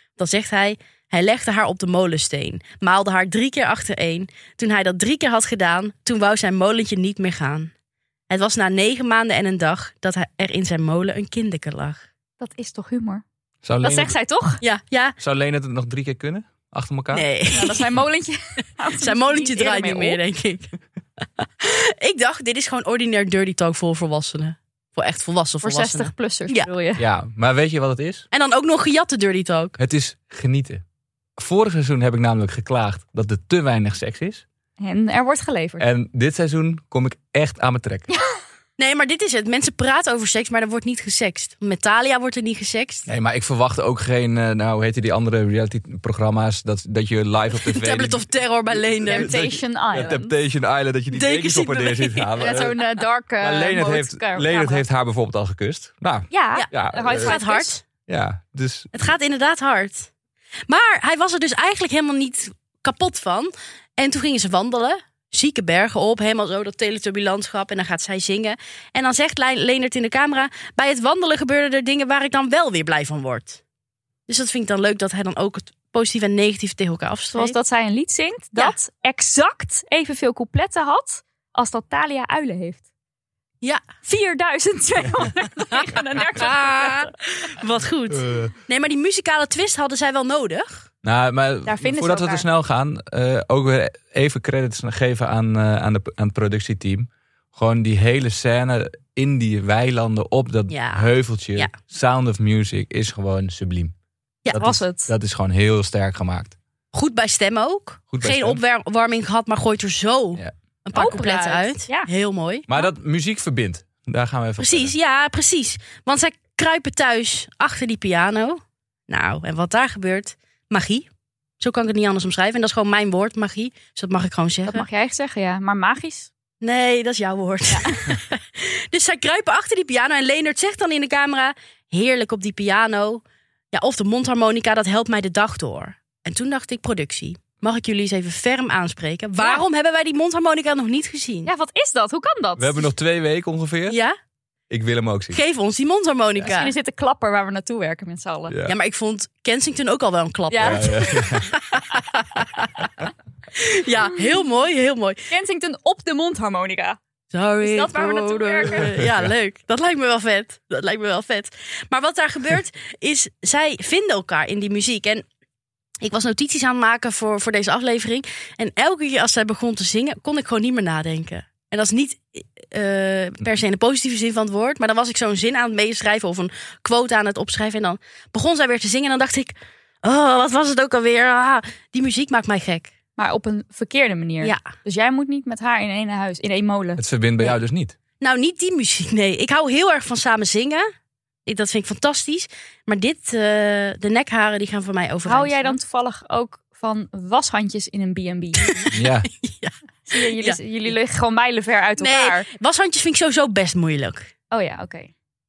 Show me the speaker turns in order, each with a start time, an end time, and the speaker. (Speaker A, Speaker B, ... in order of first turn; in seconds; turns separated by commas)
Speaker A: 0.2-7.7, Speaker A: 8.3-12.0, Speaker B: 12.4-13.2, Speaker C: 13.6-14.1, Speaker B: 13.8-14.6, Speaker A: 14.6-15.2, Speaker C: 15.2-17.2, Speaker A: 17.1-17.9, Speaker B: 17.5-20.2, Speaker A: 19.0-20.7, Speaker A: 21.4-26.7, Speaker B: 25.6-27.0, Speaker C: 27.0-28.2, Speaker A: 28.3-29.8, Speaker C: 29.8-30.8, Speaker C: 31.4-34.4, Speaker B: 34.8-35.9, Speaker C: 35.8-38.1, Speaker B: 38.1-38.4, Speaker A: 38.8-43.1, Speaker C: 43.1-52.8, Speaker A: 47.6-49.3, Speaker B: 49.0-50.3, Speaker A: 51.1-52.7, Speaker B: 52.4-54.8, Speaker C: 53.4-57.4, Speaker B: 56.3-57.7, Speaker A: 56.5-57.8, Speaker C: 58.0-59.1, Speaker A: 58.9-60.1, Speaker A: 60.7-73.6, Speaker A: 74.3-77.5, Speaker B: 77.3-82.8, Speaker B: 84.0-87.1, Speaker A: 86.3-90.9, Speaker C: 88.2-88.5, Speaker C: 91.0-103.9, Speaker B: 91.7-92.4, Speaker A: 100.7-101.7, Speaker C: 104.5-106.5, Speaker B: 104.5-105.1, Speaker A: 106.9-112.7, Speaker C: 108.1-108.6, Speaker B: 110.9-112.1, Speaker C: 112.7-114.9, Speaker A: 114.6-121.1, Speaker A: 121.6-124.8, Speaker B: 124.7-126.3, Speaker A: 126.6-133.2, Speaker B: 127.7-128.1, Speaker A: 133.7-141.5, Speaker B: 139.4-139.6, Speaker B: 141.4-142.9, Speaker C: 142.6-144.0, Speaker A: 143.9-144.1, Speaker C: 144.7-145.4, Speaker A: 145.3-146.7, Speaker B: 146.4-148.5, Speaker C: 148.5-148.7, Speaker A: 148.7-152.8, Speaker B: 150.5-151.3, Speaker C: 150.6-151.5, Speaker A: 153.5-155.3, Speaker B: 155.3-157.0, Speaker A: 157.3-165.2, Speaker B: 157.6-158.9, Speaker C: 158.9-159.3, Speaker A: 166.0-182.9, Speaker B: 183.2-187.0, Speaker C: 187.0-187.9, Speaker A: 188.2-190.8, Speaker A: 191.4-195.8, Speaker B: 195.2-198.9, Speaker A: 198.6-200.6, Speaker C: 198.9-199.3, Speaker B: 200.1-202.5, Speaker A: 202.0-204.3, Speaker B: 204.5-205.1